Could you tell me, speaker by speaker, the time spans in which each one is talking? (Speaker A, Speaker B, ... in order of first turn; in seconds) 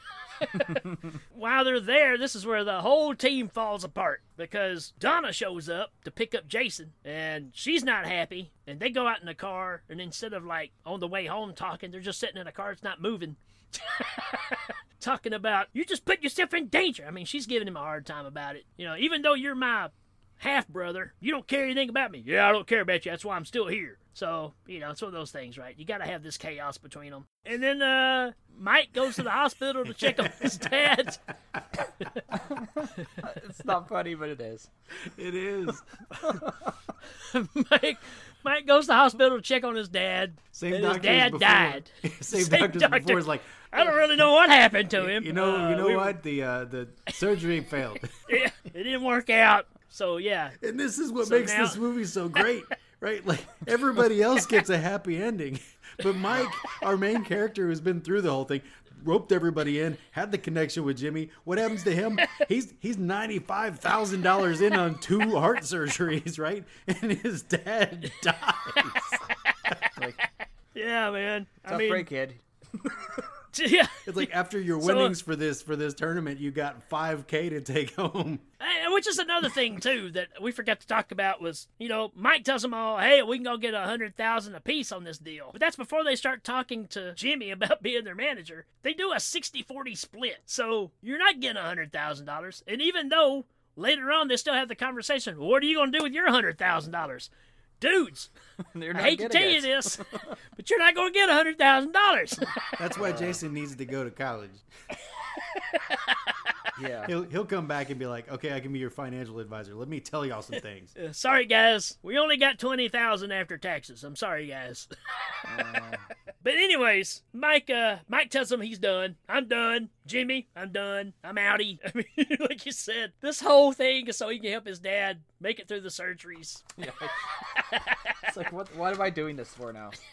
Speaker A: 0.3-31.2, 32.0-32.3, 37.1-46.2, 48.3-50.6, 51.2-51.8, 62.2-62.5, 69.3-69.8, 70.8-72.1, 73.5-74.3, 74.8-75.2, 78.6-97.3, 97.8-98.3, 98.9-102.8, 105.3-106.5, 111.0-115.8, 116.4-126.7, 127.5-128.2
Speaker B: 30.0-30.9, 35.0-36.4, 40.5-44.0, 44.9-48.4, 50.6-69.8, 74.0-78.5, 102.8-104.6, 107.0-111.0
Speaker C: 32.4-34.7, 36.2-36.7, 71.7-73.2, 98.7-100.3, 103.0-103.4, 106.8-107.1, 115.5-116.1, 126.8-127.3, 128.2-130.0